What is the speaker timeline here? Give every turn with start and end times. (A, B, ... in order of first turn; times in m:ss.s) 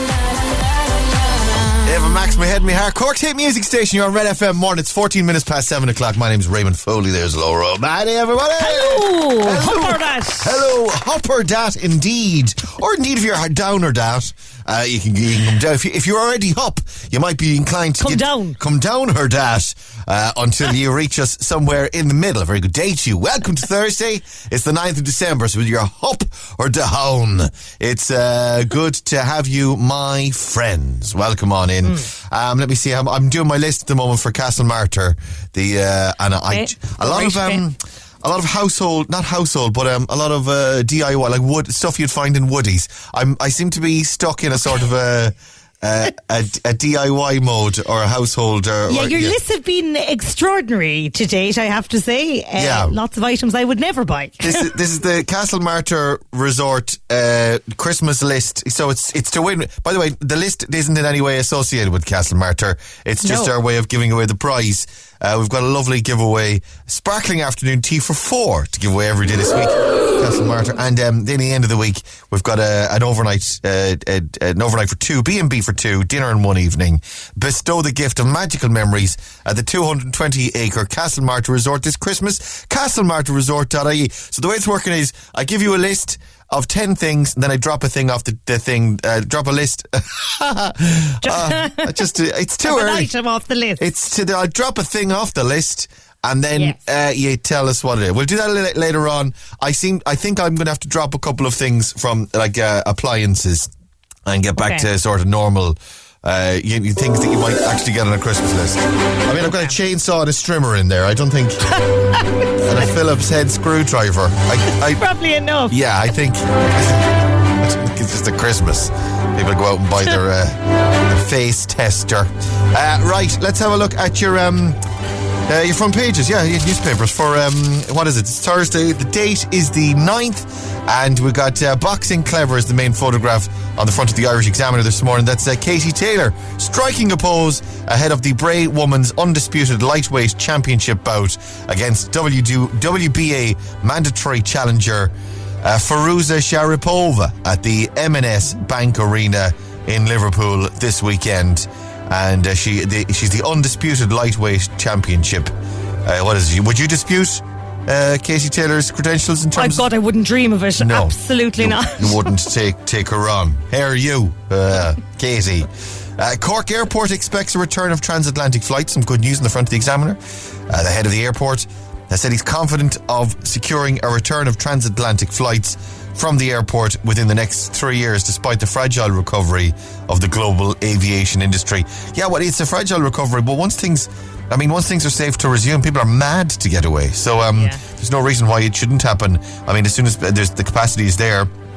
0:01.8-0:49.4 A
0:08.6-0:10.7 B
0:18.0-0:18.6 B
0:36.5-0:37.6 B
0:48.9-0:54.7 B
0:52.6-0:53.0 A
0:54.4-1:33.1 A
1:03.2-1:03.5 B
1:31.2-1:32.0 B
1:32.6-1:33.8 B
1:33.8-1:43.7 A
1:44.3-1:51.8 A
1:44.6-1:44.9 B
1:49.5-1:49.7 B
1:52.1-1:52.8 B
1:52.6-1:55.0 A
1:55.0-1:55.7 B
1:55.7-2:04.8 A
2:05.5-2:39.9 A
2:39.6-2:42.2 B
2:40.8-3:11.5 A
3:07.6-3:07.8 B